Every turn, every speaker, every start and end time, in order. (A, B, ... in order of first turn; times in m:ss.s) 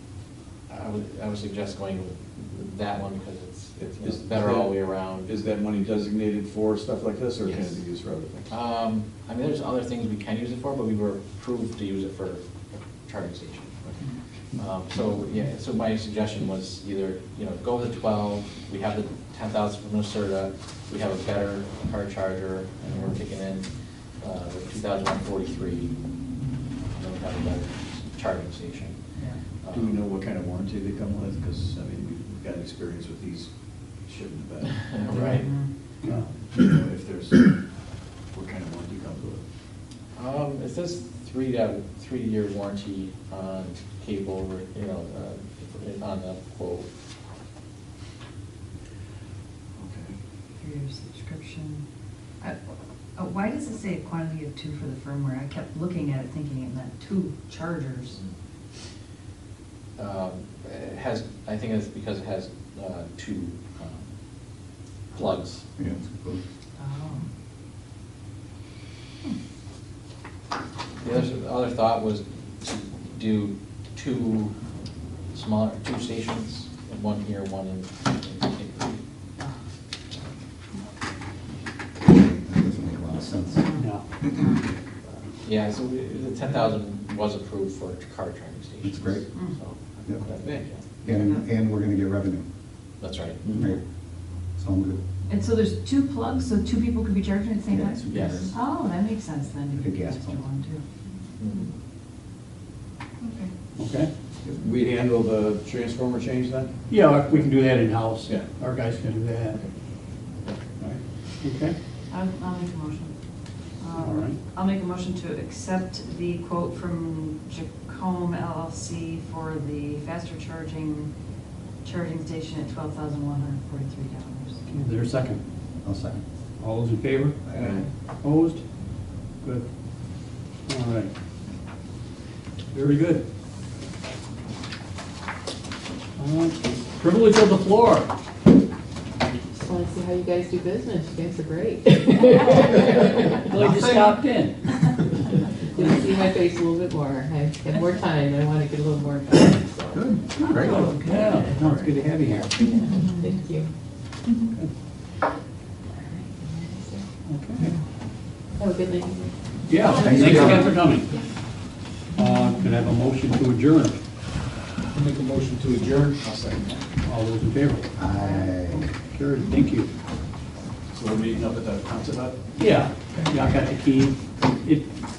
0:00.7-0:05.3 A
0:03.8-0:08.5 B
0:07.4-0:07.8 A
0:08.5-0:13.8 A
0:14.6-0:25.9 A
0:26.9-0:29.0 A
0:29.6-0:30.0 A
0:29.7-0:33.5 B
0:34.0-0:35.0 B
0:34.9-0:35.5 A
0:35.1-0:35.7 C
0:36.4-0:37.6 B
0:38.3-0:39.4 B
0:40.2-0:46.9 A
0:49.8-0:50.1 B
0:50.6-0:51.8 C
0:53.2-0:58.2 C
1:00.0-1:04.1 A
1:05.1-1:05.6 A
1:05.8-1:06.4 D
1:06.8-1:07.3 C
1:11.0-1:14.5 A
1:15.3-1:19.0 A
1:22.0-1:23.7 D
1:23.8-1:24.0 E
1:25.4-1:30.8 A
1:28.8-1:29.3 D
1:30.4-1:31.0 B
1:30.9-1:32.4 D
1:33.0-1:33.4 A
1:33.5-1:33.8 D
1:34.6-1:35.0 D
1:35.3-1:38.0 C
1:37.7-1:38.5 D
1:38.1-1:38.5 A
1:38.5-1:40.8 C
1:39.7-1:40.4 D
1:41.4-1:41.7 A
1:43.2-1:43.5 C
1:43.8-1:44.1 E
1:44.6-1:46.7 B
1:46.9-1:49.6 E
1:51.4-1:51.8 E
1:52.1-1:53.1 C
1:53.8-2:01.1 C
1:53.9-1:54.4 E
2:01.8-2:04.6 C
2:04.7-2:05.4 E
2:05.8-2:06.2 D
2:06.6-2:07.4 E
2:07.6-2:07.8 B
2:08.2-2:08.6 E
2:10.7-2:11.1 E
2:12.7-2:13.2 E
2:16.2-2:18.1 E
2:19.5-2:23.4 F
2:22.2-2:22.8 E
2:23.4-2:25.0 E
2:25.7-2:31.6 F
2:29.9-2:32.7 E
2:32.6-2:33.5 C
2:32.7-2:33.7 F
2:36.0-2:37.0 F
2:37.3-2:37.7 E
2:38.6-2:41.2 F
2:39.7-2:41.1 E
2:39.9-2:40.7 D
2:40.2-2:40.6 C
2:42.2-2:44.0 E
2:44.9-2:46.8 B
2:47.0-2:47.9 E
2:48.0-2:48.9 D
2:48.1-2:48.9 C
2:49.1-2:49.9 E
2:50.9-2:52.5 B
2:52.6-2:54.9 E